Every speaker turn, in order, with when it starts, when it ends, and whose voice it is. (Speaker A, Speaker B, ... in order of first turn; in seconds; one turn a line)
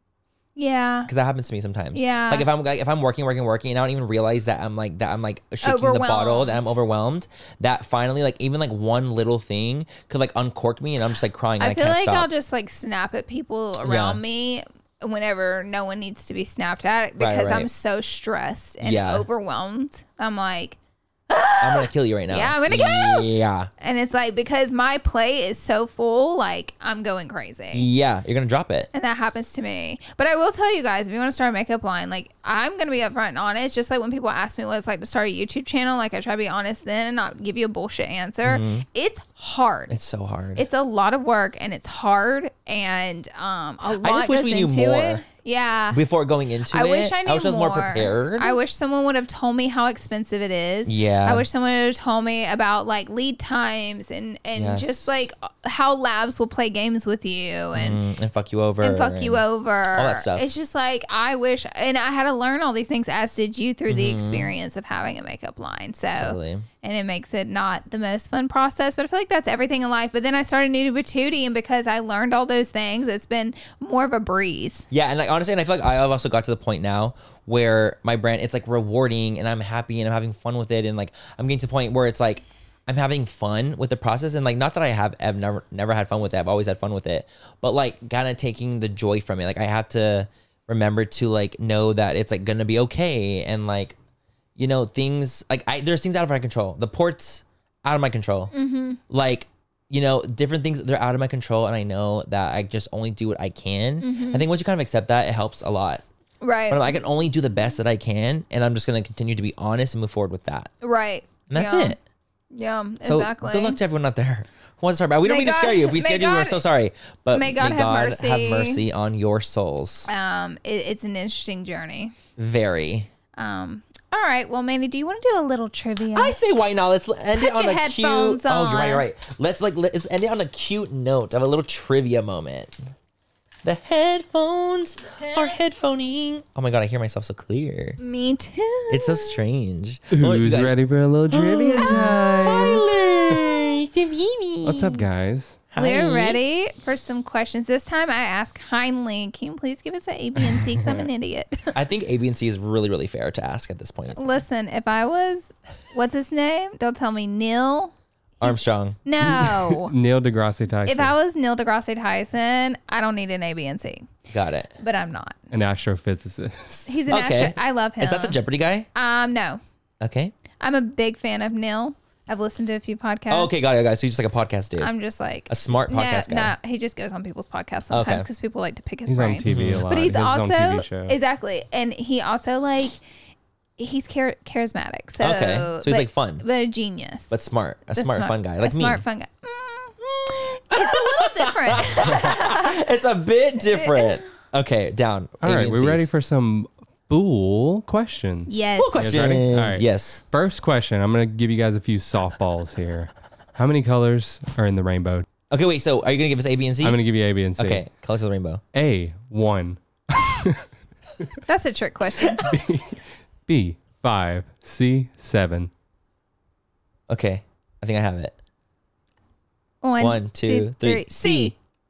Speaker A: 0.6-1.1
Speaker B: 1.1-12.3
Speaker A: 1.9-2.5
Speaker A: 5.6-6.8
Speaker A: 11.6-20.8
Speaker B: 13.8-14.2
Speaker B: 17.2-17.7
Speaker B: 18.8-19.2
Speaker A: 21.3-23.3
Speaker B: 21.6-23.7
Speaker A: 23.8-27.8
Speaker B: 27.7-28.9
Speaker A: 28.9-39.9
Speaker B: 38.4-38.9
Speaker B: 39.9-40.6
Speaker A: 40.6-46.0
Speaker B: 44.0-45.2
Speaker B: 45.9-48.6
Speaker A: 46.7-58.0
Speaker B: 50.9-51.5
Speaker B: 54.5-55.3
Speaker B: 57.7-60.5
Speaker A: 58.8-74.8
Speaker B: 63.9-64.5
Speaker B: 66.2-66.7
Speaker B: 74.9-94.0
Speaker B: 94.6-98.5
Speaker A: 98.5-99.0
Speaker B: 99.1-106.0
Speaker A: 104.0-104.5
Speaker A: 106.4-107.0
Speaker B: 106.7-110.7
Speaker A: 110.8-112.0
Speaker B: 111.5-112.0
Speaker A: 112.5-113.8
Speaker B: 113.0-120.1
Speaker A: 115.2-116.6
Speaker A: 117.3-118.8
Speaker A: 120.1-122.1
Speaker B: 122.4-123.1
Speaker A: 123.3-126.4
Speaker B: 126.1-132.8
Speaker A: 127.3-129.0
Speaker B: 133.6-138.0
Speaker A: 138.0-139.4
Speaker B: 138.9-140.7
Speaker C: 140.1-143.4
Speaker B: 141.3-145.0
Speaker C: 144.6-145.6
Speaker B: 145.7-146.4
Speaker A: 145.8-151.7
Speaker C: 150.4-151.1
Speaker B: 151.7-154.2
Speaker A: 154.1-159.9
Speaker B: 158.4-159.4
Speaker C: 159.2-161.1
Speaker A: 160.8-164.1
Speaker B: 164.3-164.7
Speaker A: 164.8-165.4
Speaker C: 165.5-167.0
Speaker A: 166.9-168.4
Speaker B: 167.1-168.9
Speaker A: 168.9-169.6
Speaker B: 170.0-170.3
Speaker A: 170.6-173.5
Speaker B: 173.3-174.9
Speaker A: 174.8-183.0
Speaker B: 175.5-176.6
Speaker B: 177.9-178.2
Speaker C: 179.1-181.2
Speaker B: 179.4-179.9
Speaker A: 183.8-187.3
Speaker B: 185.2-186.4
Speaker B: 187.3-189.0
Speaker A: 187.9-192.8
Speaker B: 190.1-196.0
Speaker A: 193.7-194.2
Speaker C: 195.4-205.2
Speaker A: 198.5-199.0
Speaker B: 198.8-200.2
Speaker B: 205.5-207.0
Speaker C: 206.8-207.8
Speaker B: 207.6-208.6
Speaker C: 208.7-210.7
Speaker A: 211.5-212.5
Speaker C: 212.4-215.7
Speaker B: 217.1-218.3
Speaker A: 219.8-221.5
Speaker B: 220.0-221.5